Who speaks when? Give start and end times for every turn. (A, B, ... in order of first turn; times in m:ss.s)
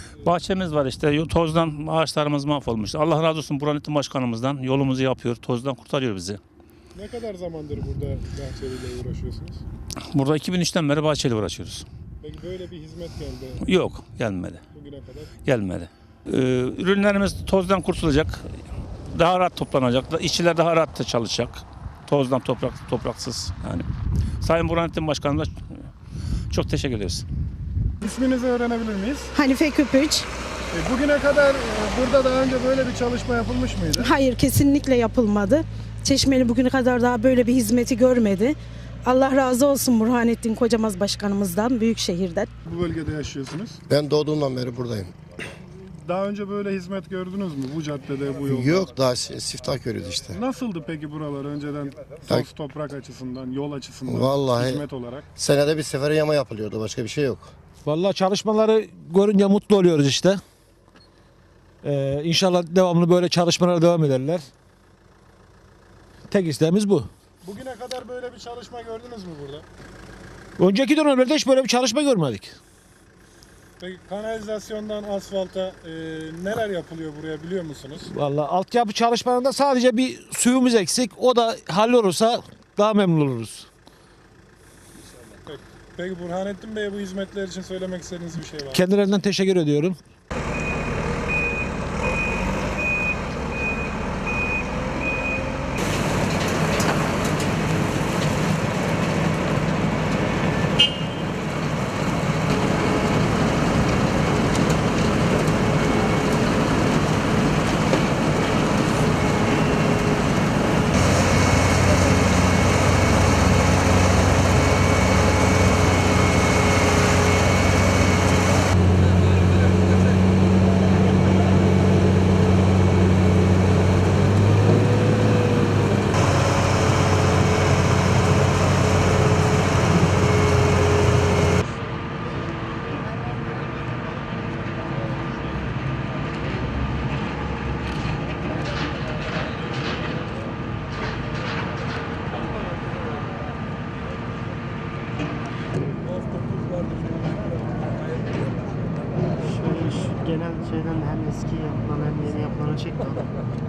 0:00.2-0:06.4 A
0:06.9-0:09.6 B
0:10.1-0:11.8 A
0:12.2-0:13.8 B
0:13.6-0:14.6 A
0:14.7-0:15.3 B
0:15.4-0:18.5 A
0:19.1-0:23.8 A
0:24.4-0:25.9 A
0:26.5-0:27.2 A
0:28.0-0:29.3 B
0:29.3-0:30.3 C
0:30.7-0:34.1 B
0:34.0-0:42.5 C
0:42.6-0:43.8 B
0:43.9-0:45.1 D
0:45.8-0:48.9 B
0:48.5-0:50.4 D
0:50.3-0:55.2 B
0:54.0-0:54.8 D
0:55.4-0:57.5 D
0:57.8-1:00.4 E
1:01.8-1:04.5 E
1:06.3-1:07.1 E
1:07.4-1:09.6 B
1:10.6-1:12.6 E
1:13.8-1:18.1 B
1:18.1-1:23.7 E
1:25.4-1:28.8 B
1:28.7-1:30.0 E
2:29.5-2:33.2 F